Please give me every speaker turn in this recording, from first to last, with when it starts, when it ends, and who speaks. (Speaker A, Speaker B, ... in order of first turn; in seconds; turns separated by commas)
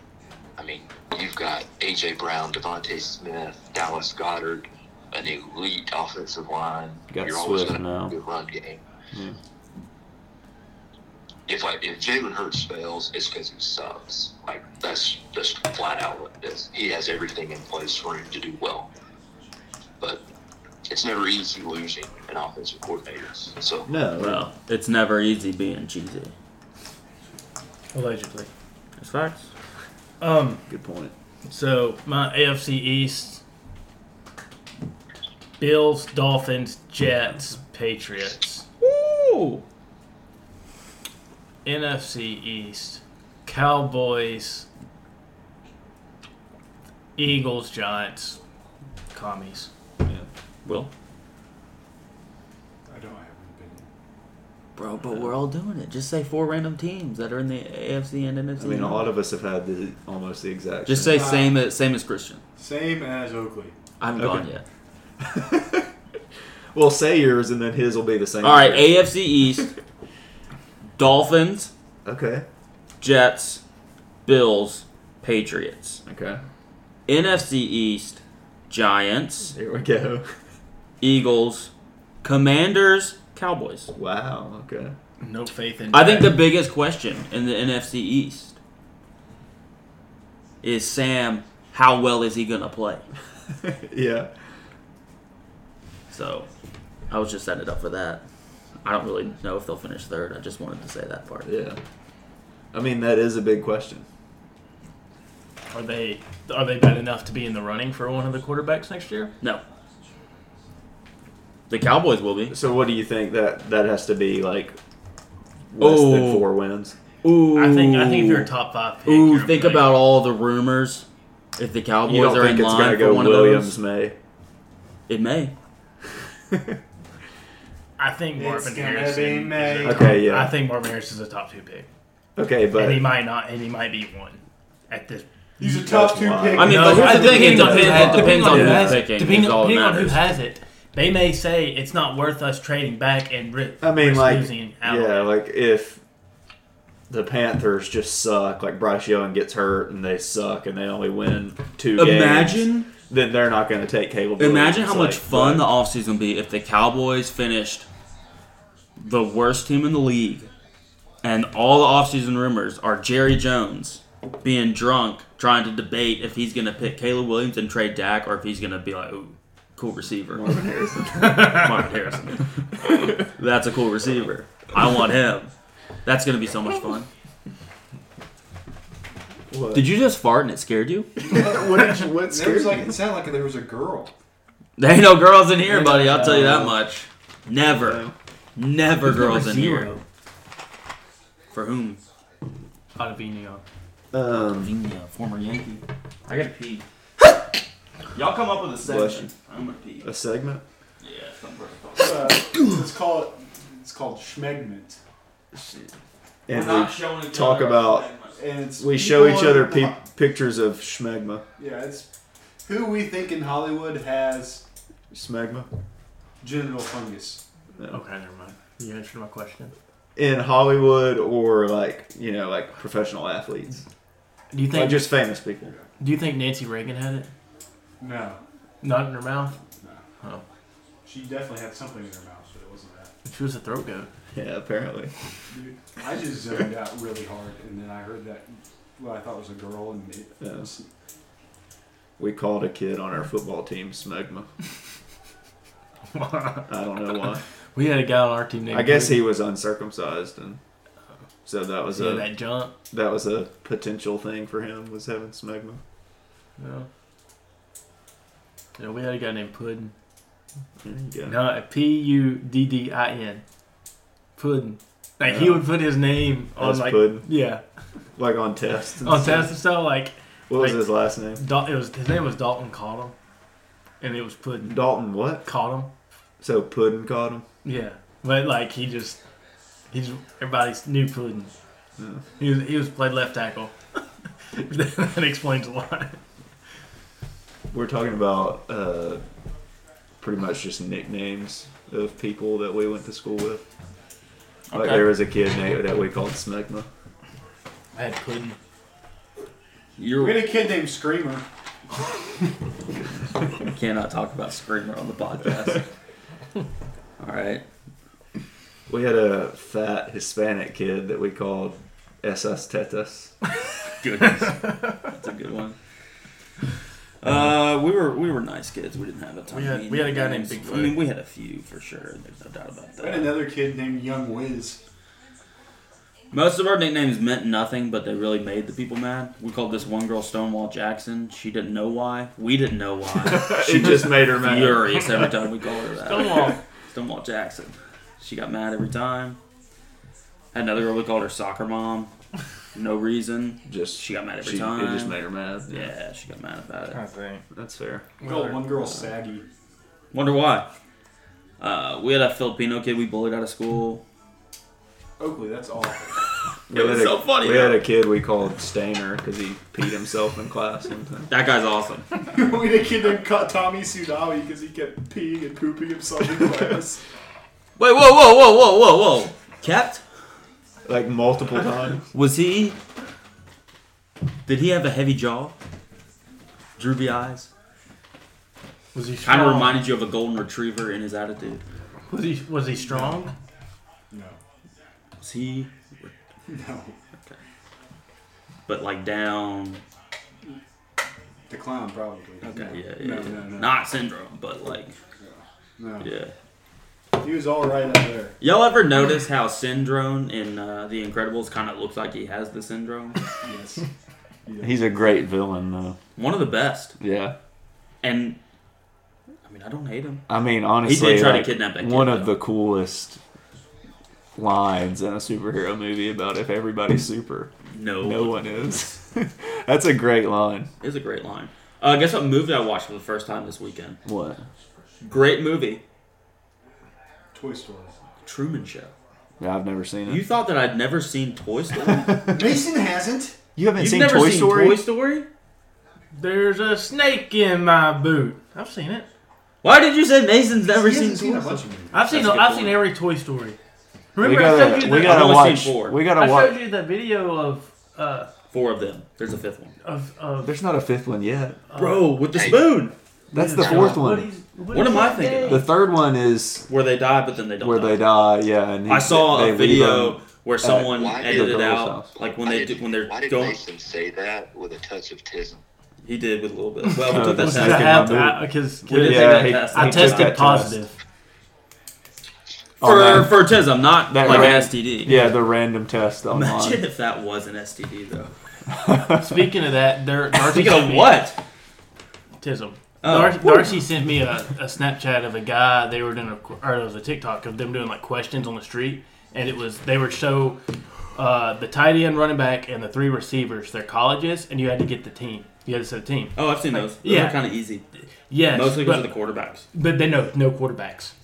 Speaker A: 0.6-8.8, Speaker B: 7.1-8.2, Speaker B: 9.1-9.4, Speaker A: 11.5-18.9, Speaker A: 20.0-20.3, Speaker A: 20.9-23.9, Speaker B: 23.9-24.5, Speaker C: 24.1-26.3, Speaker D: 27.9-28.5, Speaker C: 29.0-29.5, Speaker D: 30.2-30.6, Speaker B: 30.7-31.1, Speaker D: 31.5-33.4, Speaker D: 35.6-38.7, Speaker C: 38.8-39.6, Speaker D: 41.6-44.7, Speaker D: 47.2-48.4, Speaker D: 49.1-49.7, Speaker C: 50.6-50.9, Speaker E: 52.9-53.9, Speaker C: 54.8-59.1, Speaker B: 58.6-61.3, Speaker C: 60.9-62.4, Speaker E: 61.0-61.6, Speaker E: 62.6-63.8, Speaker C: 64.0-64.6, Speaker B: 64.2-64.5, Speaker B: 65.2-65.9, Speaker B: 66.7-69.7, Speaker C: 68.4-69.7, Speaker C: 71.0-71.7, Speaker B: 72.0-72.5, Speaker C: 73.0-73.6, Speaker C: 74.3-76.0, Speaker B: 76.1-76.4, Speaker C: 77.1-79.5, Speaker B: 79.5-80.3, Speaker C: 81.0-81.7, Speaker C: 82.2-83.9, Speaker B: 84.0-84.9, Speaker D: 85.2-86.4, Speaker C: 85.9-88.6, Speaker C: 90.6-93.0, Speaker B: 93.5-94.3, Speaker C: 96.1-96.5, Speaker C: 97.1-98.2, Speaker C: 98.8-101.5, Speaker B: 101.5-101.8, Speaker B: 102.7-104.1, Speaker D: 105.7-109.3, Speaker C: 111.7-112.5, Speaker B: 112.5-114.8, Speaker B: 115.7-117.0, Speaker C: 115.8-116.5, Speaker C: 117.2-118.5, Speaker D: 117.5-120.0, Speaker C: 119.1-123.8, Speaker B: 122.0-124.2, Speaker C: 125.1-125.5, Speaker B: 126.5-126.8, Speaker D: 128.0-131.9, Speaker E: 128.4-130.2, Speaker B: 129.8-130.6, Speaker B: 132.4-133.1, Speaker D: 132.7-135.3, Speaker E: 135.6-138.3, Speaker B: 135.6-139.1, Speaker C: 136.6-140.2, Speaker D: 136.6-145.3, Speaker B: 143.8-146.0, Speaker B: 147.1-155.7, Speaker C: 152.0-152.9, Speaker C: 154.4-157.9, Speaker C: 159.0-160.5, Speaker C: 161.2-170.5, Speaker B: 170.3-171.7, Speaker C: 171.3-175.5, Speaker C: 176.1-177.1, Speaker B: 179.5-179.9, Speaker C: 179.7-181.2, Speaker E: 181.2-184.1, Speaker B: 181.3-183.0, Speaker C: 184.8-188.1, Speaker B: 185.7-187.1, Speaker D: 185.9-186.6, Speaker B: 187.6-188.1, Speaker C: 188.6-189.9, Speaker D: 189.0-190.0, Speaker C: 191.5-192.0, Speaker D: 193.0-193.6, Speaker B: 194.1-194.7, Speaker C: 194.3-196.8, Speaker C: 198.1-200.1, Speaker B: 198.8-199.3, Speaker B: 200.0-200.6, Speaker C: 201.0-202.5, Speaker E: 202.0-205.0, Speaker B: 205.6-205.8, Speaker B: 206.5-208.1, Speaker C: 206.5-208.4, Speaker E: 208.4-210.0, Speaker B: 208.8-211.4, Speaker E: 211.6-212.1, Speaker E: 212.7-214.6, Speaker B: 215.1-215.7, Speaker E: 216.4-217.4, Speaker D: 217.9-219.7, Speaker B: 220.2-223.8, Speaker D: 224.5-225.2, Speaker B: 224.7-225.7, Speaker D: 226.0-227.3, Speaker E: 228.0-228.4, Speaker D: 228.8-229.6, Speaker E: 231.1-233.1, Speaker D: 233.3-234.1, Speaker B: 234.3-235.1, Speaker E: 235.5-240.9, Speaker B: 240.4-240.7, Speaker B: 242.2-244.5, Speaker D: 246.1-246.7, Speaker B: 246.7-247.4, Speaker D: 247.8-249.2, Speaker B: 248.7-250.6, Speaker B: 251.5-252.3, Speaker D: 251.9-252.7, Speaker B: 252.9-255.8, Speaker D: 256.6-256.9, Speaker D: 258.8-259.9, Speaker B: 260.8-261.4, Speaker D: 261.3-263.4, Speaker D: 264.4-267.6, Speaker B: 265.2-265.7, Speaker B: 266.6-267.3, Speaker B: 268.2-269.5, Speaker D: 269.0-273.2, Speaker B: 270.5-271.5, Speaker D: 274.0-274.8, Speaker B: 274.6-275.4, Speaker D: 275.4-275.9, Speaker B: 276.4-277.5, Speaker D: 277.6-279.2, Speaker D: 279.9-281.5, Speaker D: 282.4-284.0, Speaker D: 284.5-286.2, Speaker B: 287.7-289.2, Speaker B: 290.2-293.6, Speaker C: 294.7-295.1, Speaker B: 294.7-296.9, Speaker D: 297.9-298.6, Speaker C: 300.0-300.5, Speaker E: 300.2-301.4, Speaker C: 303.7-305.9, Speaker C: 307.2-307.6, Speaker B: 308.9-313.3, Speaker C: 314.0-315.8, Speaker C: 317.2-323.4, Speaker D: 319.5-321.0, Speaker E: 323.0-324.8, Speaker C: 326.3-339.4, Speaker B: 333.2-335.2, Speaker D: 336.0-336.6, Speaker C: 340.5-342.1, Speaker C: 342.8-345.2, Speaker B: 343.7-345.9, Speaker C: 345.7-347.0, Speaker D: 346.9-347.4, Speaker B: 347.5-348.1, Speaker E: 348.2-349.4, Speaker C: 350.1-350.7, Speaker C: 351.6-354.0, Speaker E: 355.2-356.2, Speaker B: 356.7-361.3, Speaker C: 356.7-357.8, Speaker C: 361.3-362.1, Speaker E: 362.3-367.0, Speaker C: 367.8-370.0, Speaker B: 370.9-372.1, Speaker C: 372.1-372.8, Speaker C: 374.5-375.6, Speaker C: 376.8-377.5, Speaker D: 378.9-379.8, Speaker C: 379.2-381.6, Speaker D: 382.1-383.3, Speaker E: 384.1-384.4, Speaker C: 385.2-386.1, Speaker E: 386.5-387.0, Speaker C: 388.7-389.8, Speaker E: 391.5-393.8, Speaker C: 392.4-395.0, Speaker E: 395.2-396.1, Speaker C: 396.0-396.3, Speaker E: 397.2-398.4, Speaker C: 398.4-403.2, Speaker E: 403.4-403.9, Speaker E: 404.5-405.0, Speaker B: 404.6-406.0, Speaker C: 406.2-406.9, Speaker B: 407.0-407.4, Speaker C: 408.0-408.4, Speaker C: 409.4-410.2, Speaker B: 410.3-413.2, Speaker C: 410.8-412.3, Speaker B: 414.4-420.7, Speaker C: 417.7-418.8, Speaker C: 420.8-424.0, Speaker B: 424.1-424.4, Speaker C: 425.0-425.8, Speaker E: 427.3-428.0, Speaker C: 428.2-428.9, Speaker B: 429.4-430.2, Speaker C: 430.1-432.2, Speaker B: 431.9-432.5, Speaker E: 432.2-433.4, Speaker B: 433.6-434.8, Speaker C: 433.8-435.3, Speaker D: 436.1-439.1, Speaker C: 439.6-442.8, Speaker E: 440.7-442.2, Speaker D: 441.9-443.6, Speaker D: 444.1-445.4, Speaker B: 444.2-446.6, Speaker C: 444.9-446.0, Speaker D: 446.1-448.3, Speaker C: 448.5-449.7, Speaker D: 449.8-450.5, Speaker B: 450.4-451.6, Speaker D: 451.7-452.2, Speaker C: 451.7-452.9, Speaker A: 452.3-452.8, Speaker B: 453.3-454.3, Speaker D: 453.3-455.7, Speaker C: 453.6-454.0, Speaker C: 454.7-455.7, Speaker B: 455.5-456.7, Speaker C: 456.7-458.1, Speaker B: 457.6-462.1, Speaker C: 458.9-463.6, Speaker A: 460.8-465.6, Speaker C: 466.0-468.0, Speaker D: 466.9-471.0, Speaker B: 467.1-470.8, Speaker C: 468.9-470.6, Speaker B: 472.8-473.5, Speaker C: 472.8-475.3, Speaker B: 474.1-476.8, Speaker C: 476.3-478.3, Speaker B: 478.8-479.4, Speaker D: 479.1-481.2, Speaker C: 480.4-481.4, Speaker D: 482.4-490.6, Speaker C: 483.0-483.7, Speaker D: 491.1-497.4, Speaker C: 496.4-497.9, Speaker D: 498.3-499.1, Speaker C: 498.5-499.6, Speaker D: 499.7-501.1